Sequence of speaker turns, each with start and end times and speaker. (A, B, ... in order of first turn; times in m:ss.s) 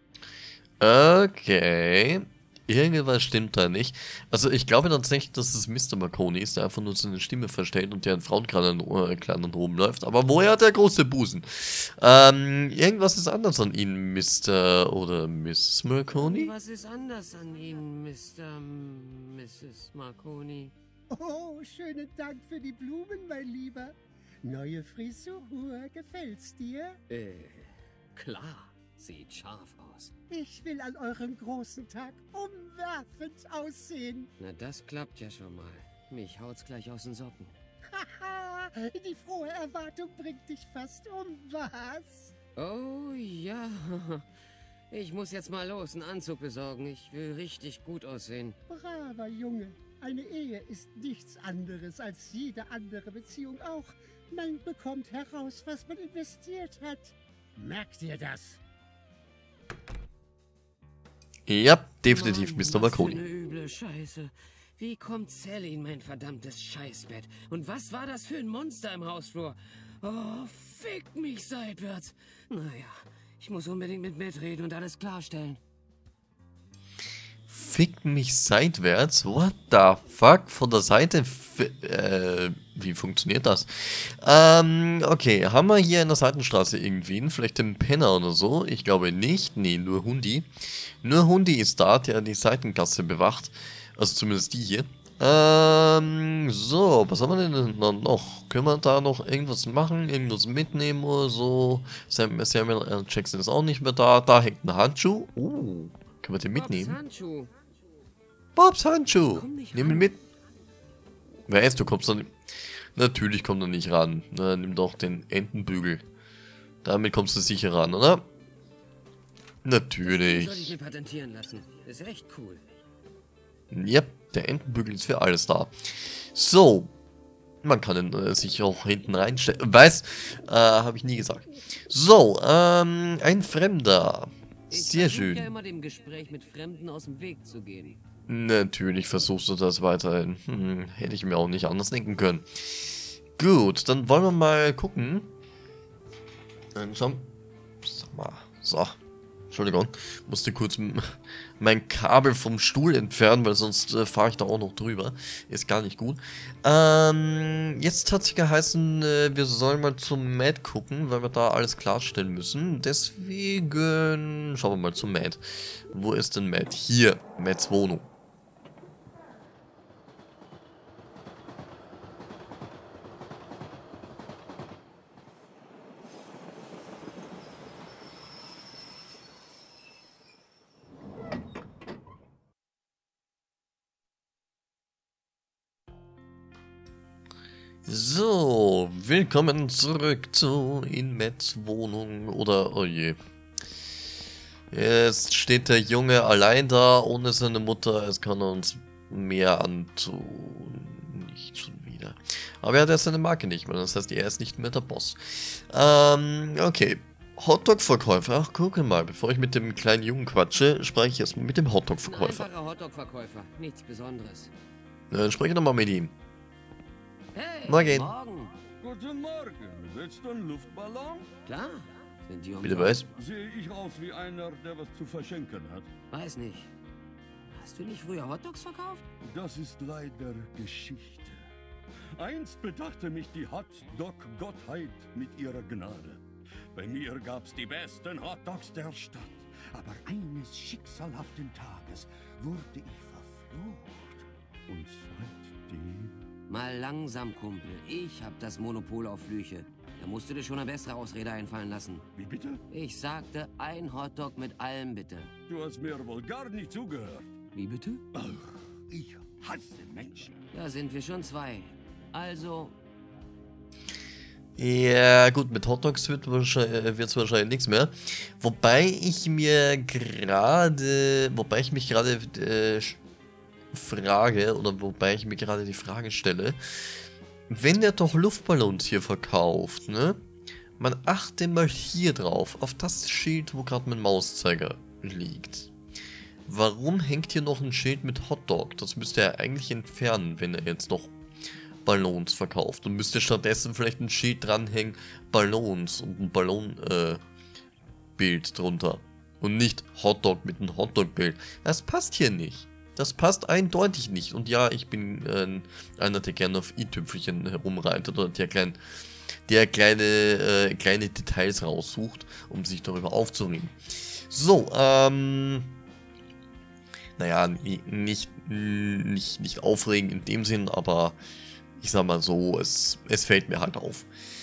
0:00.8-0:16.5 A
0:16.1-0:20.7 B
0:21.1-0:27.0 C
0:27.1-0:30.1 B
0:30.3-0:34.3 C
0:34.4-0:37.5 B
0:37.9-0:42.3 C
0:42.6-0:44.2 B
0:44.9-0:48.6 B
0:48.7-0:58.6 C
1:01.5-1:03.2 A
1:02.0-1:15.6 B
1:17.5-1:47.0 A
1:46.5-1:47.5 B
1:48.6-1:50.2 A
1:49.3-1:50.1 B
1:51.5-1:52.3 A
1:53.0-1:56.0 A
1:56.8-1:58.2 A
1:59.6-2:00.8 A
2:00.0-2:02.6 B
2:03.7-2:06.9 A
2:07.6-2:15.5 A
2:14.7-2:18.0 B
2:18.3-2:22.4 A
2:23.4-2:25.3 A
2:26.8-2:27.3 A
2:27.8-2:29.0 A
2:29.5-2:31.0 A
2:31.6-2:48.1 A
3:07.8-3:13.2 A
3:14.7-3:32.5 A
3:32.0-3:34.5 B
3:35.1-3:36.1 A
3:37.3-3:38.6 B
3:37.7-3:38.1 A
3:38.8-3:41.3 D
3:41.4-3:43.1 B
3:42.6-3:43.0 A
3:43.2-3:45.9 D
3:46.1-3:46.7 B
3:47.5-3:49.0 B
3:49.2-3:51.5 D
3:52.2-3:56.2 D
3:56.7-4:06.2 D
4:06.5-4:12.0 B
4:12.2-4:12.6 D
4:12.7-4:15.3 B
4:15.5-4:17.3 D
4:17.5-4:18.0 B
4:18.1-4:20.4 D
4:20.5-4:22.8 B
4:24.6-4:33.0 A
4:33.7-4:36.6 A
4:37.5-4:40.2 A
4:40.8-4:45.7 A
4:46.5-4:51.2 A
4:51.9-4:57.2 A
4:58.2-5:08.8 A
5:09.5-5:15.7 A
5:17.2-5:21.2 A
5:21.8-5:24.1 A